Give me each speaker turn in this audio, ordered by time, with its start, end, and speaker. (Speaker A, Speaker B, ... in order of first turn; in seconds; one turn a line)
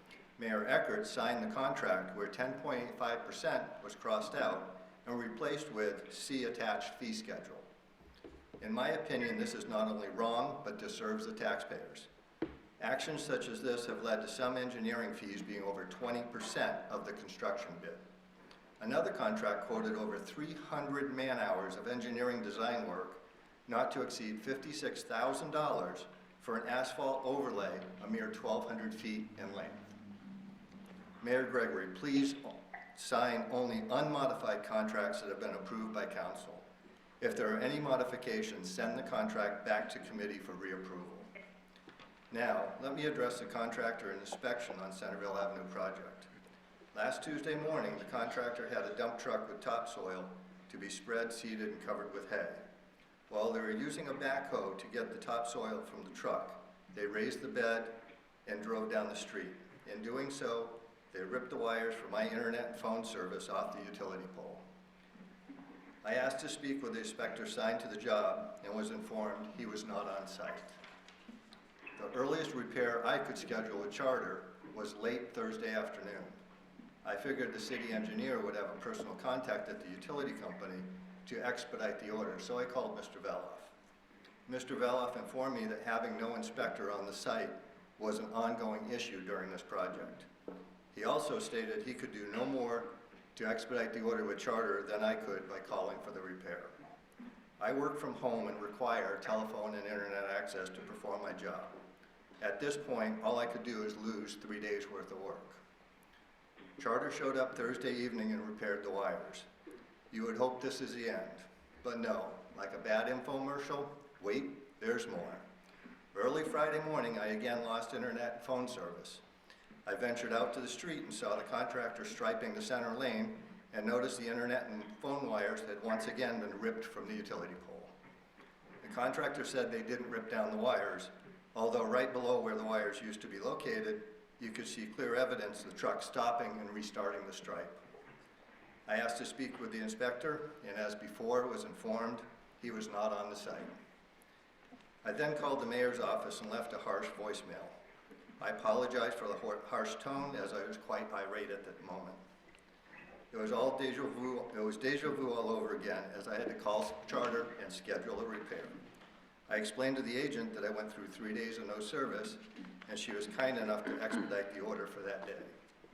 Speaker A: 0.4-7.7
Speaker A: 8.6-12.1
Speaker A: 12.8-18.0
Speaker A: 18.8-29.9
Speaker A: 31.2-36.6
Speaker A: 37.2-41.3
Speaker A: 42.3-46.3
Speaker A: 46.9-52.6
Speaker A: 53.3-64.6
Speaker A: 66.0-70.8
Speaker A: 72.0-76.4
Speaker A: 77.0-83.7
Speaker A: 84.5-90.3
Speaker A: 90.9-96.7
Speaker A: 97.6-101.7
Speaker A: 102.4-105.6
Speaker A: 106.8-109.5
Speaker A: 110.1-115.4
Speaker A: 116.1-119.2
Speaker A: 119.9-127.9
Speaker A: 128.8-137.8
Speaker A: 138.9-143.7
Speaker A: 145.0-147.7
Speaker A: 148.4-152.2
Speaker A: 153.3-158.8
Speaker A: 159.5-165.5